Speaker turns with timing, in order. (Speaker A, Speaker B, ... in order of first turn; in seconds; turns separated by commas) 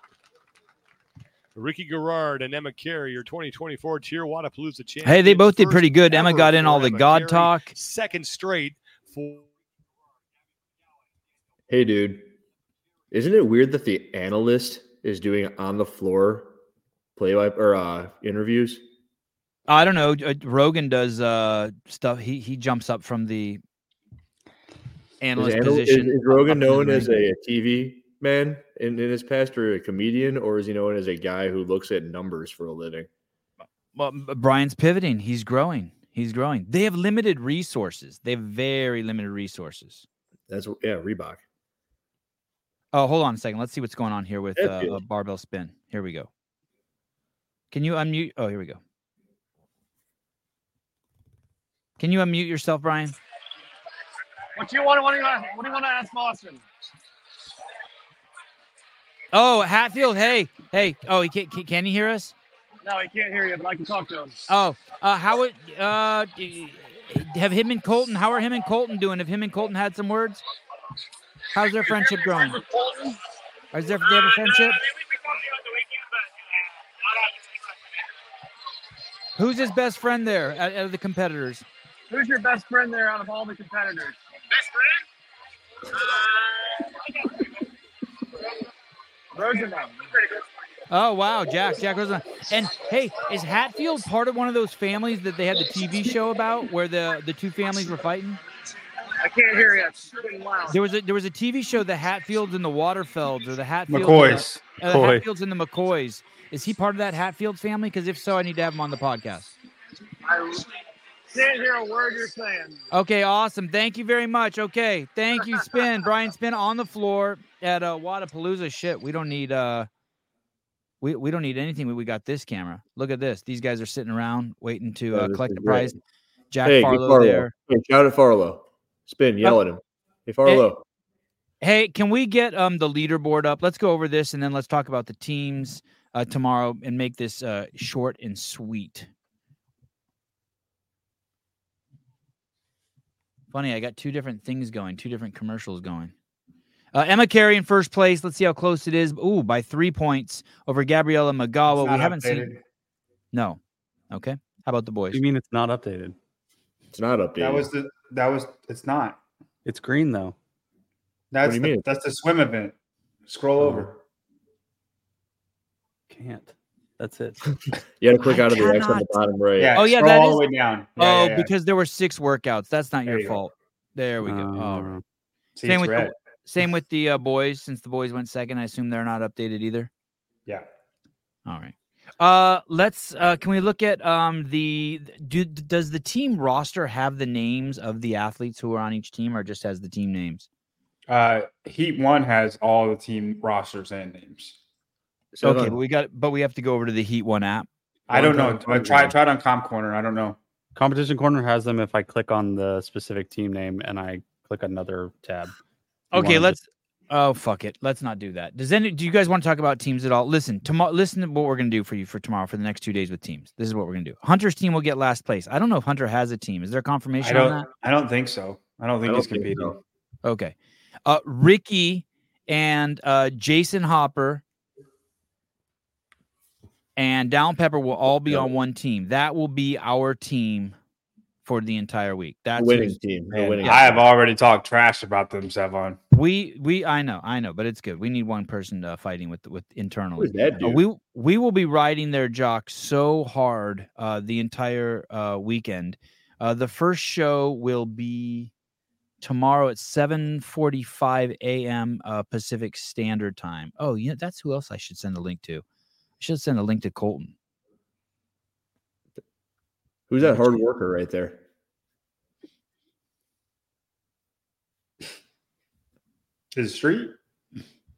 Speaker A: 1.5-9.5, Speaker B: 5.0-7.7, Speaker C: 11.7-12.3, Speaker C: 13.1-16.5, Speaker C: 17.1-18.8, Speaker B: 19.7-23.6, Speaker B: 25.2-27.2, Speaker C: 25.4-33.1, Speaker B: 33.9-40.0, Speaker C: 40.5-41.4, Speaker B: 42.9-46.3, Speaker C: 44.6-45.0, Speaker B: 47.7-48.8, Speaker B: 52.0-53.1, Speaker D: 54.5-56.6, Speaker B: 59.3-62.3, Speaker D: 62.8-64.4, Speaker B: 64.5-70.4, Speaker B: 71.5-72.6, Speaker D: 71.9-73.2, Speaker B: 73.7-74.8, Speaker B: 79.3-81.6, Speaker D: 82.1-84.2, Speaker D: 89.3-90.1, Speaker B: 90.9-98.4, Speaker D: 99.2-100.7, Speaker B: 100.7-109.5, Speaker E: 103.9-104.7, Speaker F: 104.9-105.2, Speaker D: 110.2-110.6, Speaker D: 111.3-112.8, Speaker B: 112.9-119.9, Speaker B: 121.0-126.0, Speaker C: 125.1-126.0, Speaker B: 126.5-127.5, Speaker C: 126.6-130.8, Speaker B: 131.6-139.1, Speaker B: 143.5-146.1, Speaker B: 146.9-152.5, Speaker E: 151.7-152.6, Speaker B: 153.3-153.6, Speaker B: 154.1-155.2, Speaker F: 155.1-156.2, Speaker C: 156.9-157.7, Speaker E: 157.4-159.2, Speaker F: 159.6-160.3, Speaker E: 161.3-162.7, Speaker C: 161.4-161.8, Speaker E: 163.3-164.0, Speaker F: 166.1-167.4, Speaker C: 168.0-169.8, Speaker B: 168.2-169.1, Speaker E: 169.6-171.5, Speaker B: 169.7-170.4, Speaker B: 171.0-175.0, Speaker E: 173.1-173.4, Speaker F: 174.2-175.0, Speaker E: 175.6-176.1, Speaker B: 175.7-179.9, Speaker B: 181.4-190.4, Speaker E: 191.1-194.6, Speaker C: 195.3-195.8, Speaker B: 195.4-197.7, Speaker E: 198.1-200.4, Speaker C: 198.1-199.1, Speaker F: 200.7-205.5, Speaker B: 206.1-217.7, Speaker F: 206.1-206.6, Speaker E: 217.2-219.8, Speaker C: 219.1-219.8, Speaker B: 220.2-224.4, Speaker B: 226.9-230.8, Speaker C: 228.1-228.5, Speaker B: 231.4-233.9, Speaker C: 232.6-234.1, Speaker E: 233.5-236.0, Speaker B: 236.1-248.5, Speaker C: 240.2-240.8, Speaker B: 249.2-255.6, Speaker B: 256.2-257.3, Speaker C: 260.1-261.4, Speaker B: 260.2-260.6, Speaker E: 266.5-267.1